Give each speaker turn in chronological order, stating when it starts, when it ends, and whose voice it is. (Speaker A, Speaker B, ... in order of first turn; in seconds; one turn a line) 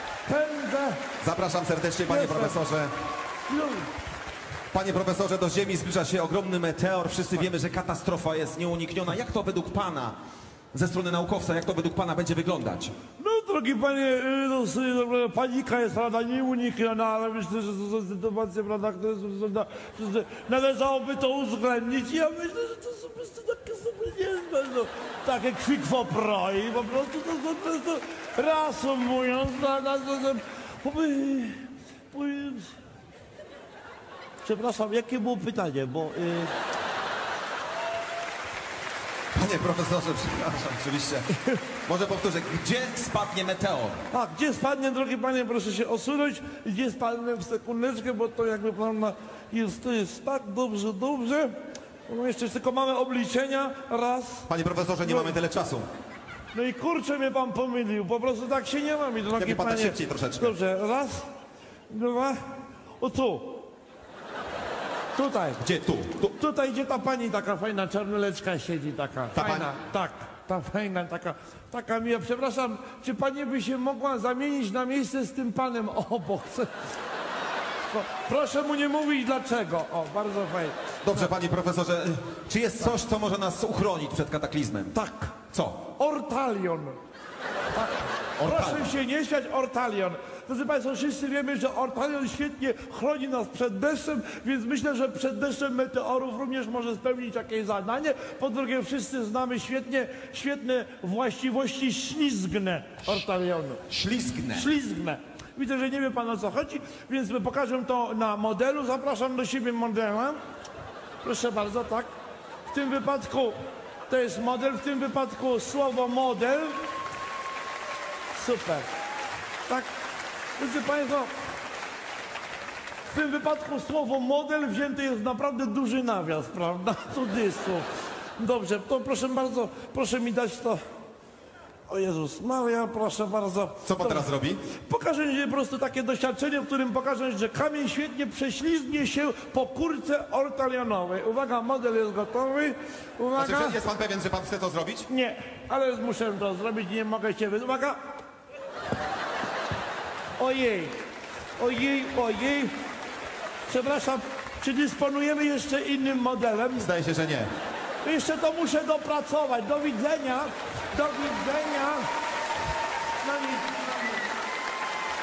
Speaker A: 0.3-1.0
Speaker B: 1.2-2.9
Speaker A: 2.1-2.6
Speaker A: 3.5-3.9
Speaker B: 4.7-10.2
Speaker B: 10.7-12.9
Speaker A: 13.2-32.7
Speaker A: 34.4-36.5
Speaker B: 39.3-41.3
Speaker B: 41.9-44.0
Speaker A: 44.1-51.5
Speaker A: 52.1-54.5
Speaker B: 54.5-55.9
Speaker A: 55.0-55.4
Speaker A: 56.5-61.3
Speaker B: 59.3-60.5
Speaker A: 61.9-62.4
Speaker A: 63.0-63.6
Speaker A: 65.2-65.6
Speaker B: 65.6-66.3
Speaker A: 66.4-76.7
Speaker B: 69.3-69.7
Speaker A: 77.9-80.8
Speaker B: 81.0-85.0
Speaker A: 84.9-87.0
Speaker B: 85.5-85.8
Speaker A: 87.7-103.8
Speaker B: 88.4-88.9
Speaker B: 103.9-104.7
Speaker A: 104.5-110.4
Speaker A: 111.2-112.1
Speaker A: 112.7-113.5
Speaker A: 114.1-116.8
Speaker A: 118.3-118.9
Speaker A: 120.6-121.3
Speaker A: 123.1-127.9
Speaker A: 128.4-130.8
Speaker A: 131.9-134.3
Speaker B: 133.8-134.6
Speaker A: 134.8-143.8
Speaker B: 143.4-145.1
Speaker A: 145.1-148.0
Speaker A: 150.4-151.0
Speaker A: 151.6-152.7
Speaker A: 153.7-156.9
Speaker B: 156.8-157.5
Speaker A: 158.0-162.1
Speaker A: 163.2-164.2